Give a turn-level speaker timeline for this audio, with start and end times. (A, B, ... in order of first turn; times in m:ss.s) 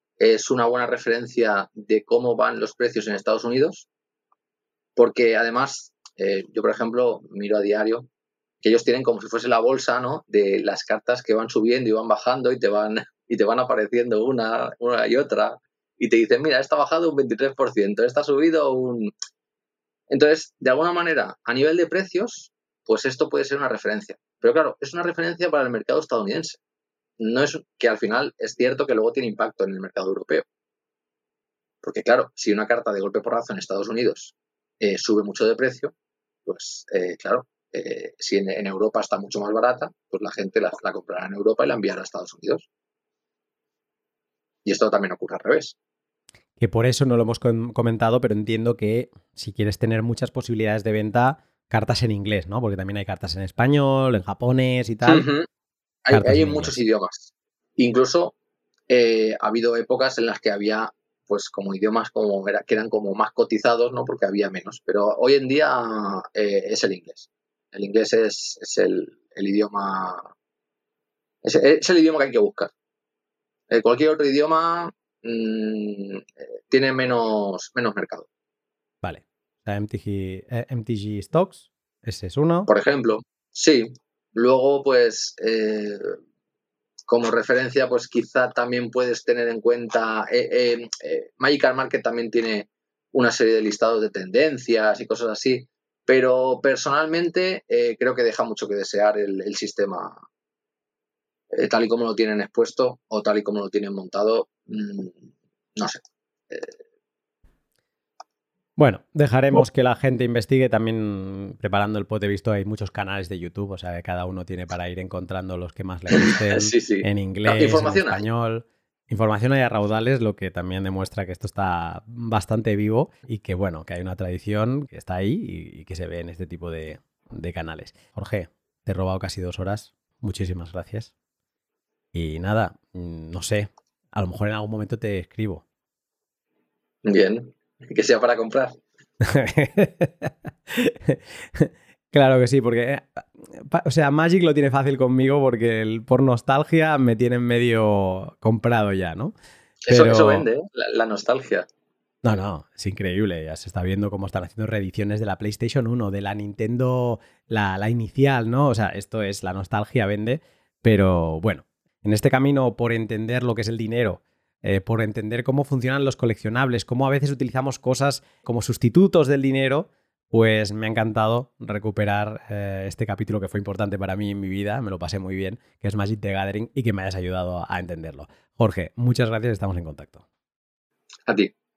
0:00.2-0:03.9 A
0:05.0-0:08.1 A
0:08.6-0:19.1 A
0:20.1-0:26.6 A
0:27.2-0:30.4 A
0:31.8-0:35.9 A
0:36.4-0:42.7 A
0:44.6-0:45.8 A
0:46.6-0:55.3 B
0:55.0-0:55.5 A
0:56.0-0:58.3 A
0:56.1-0:56.8 B
0:58.9-1:10.3 A
1:11.4-1:12.7 A
1:13.7-1:18.3 A
1:19.0-1:22.7 B
1:22.7-1:26.2 A
1:27.1-1:40.2 A
1:41.5-1:46.8 A
1:48.8-2:11.1 B
1:56.2-1:58.2 A
2:12.1-2:15.6 B
2:17.0-2:18.8 A
2:19.2-2:29.3 B
2:29.8-2:31.7 A
2:29.9-2:30.5 B
2:32.2-3:00.2 B
3:01.3-3:01.5 A